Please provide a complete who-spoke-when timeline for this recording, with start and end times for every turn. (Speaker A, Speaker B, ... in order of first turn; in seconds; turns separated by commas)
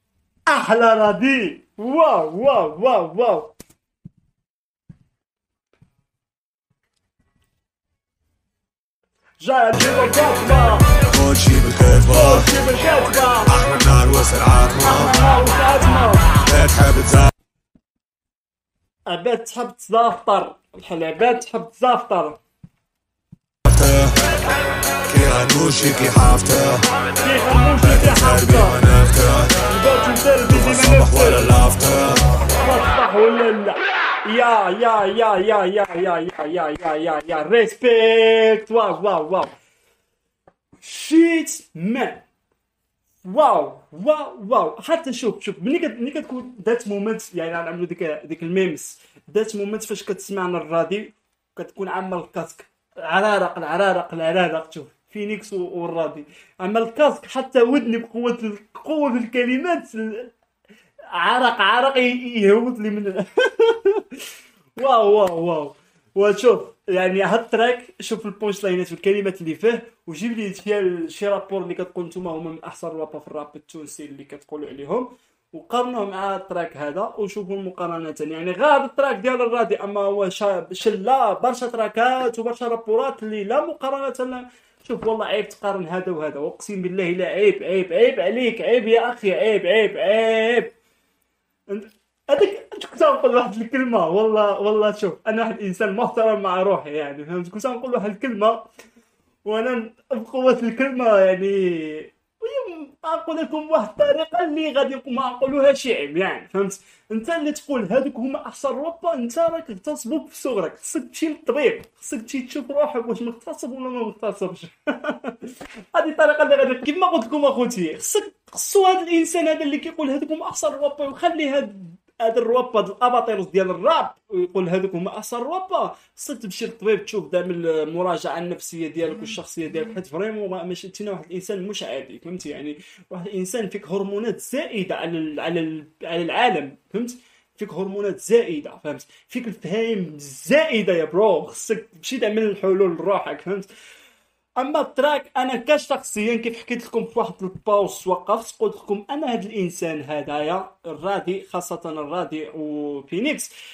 Speaker A: 0.5-3.5, Speaker A: 9.4-10.9, Speaker B: 11.1-12.5, Speaker A: 12.1-13.5, Speaker B: 13.5-15.1, Speaker A: 14.8-16.3, Speaker B: 16.4-17.3, Speaker A: 19.1-22.4, Speaker B: 23.6-24.1, Speaker B: 25.1-26.8, Speaker A: 27.2-28.8, Speaker B: 27.8-29.6, Speaker A: 29.7-31.6, Speaker B: 30.5-32.3, Speaker A: 32.5-39.5, Speaker A: 40.8-42.2, Speaker A: 43.2-60.3, Speaker A: 61.1-64.2, Speaker A: 64.8-90.7, Speaker A: 91.7-98.7, Speaker A: 99.4-143.7, Speaker A: 144.6-153.5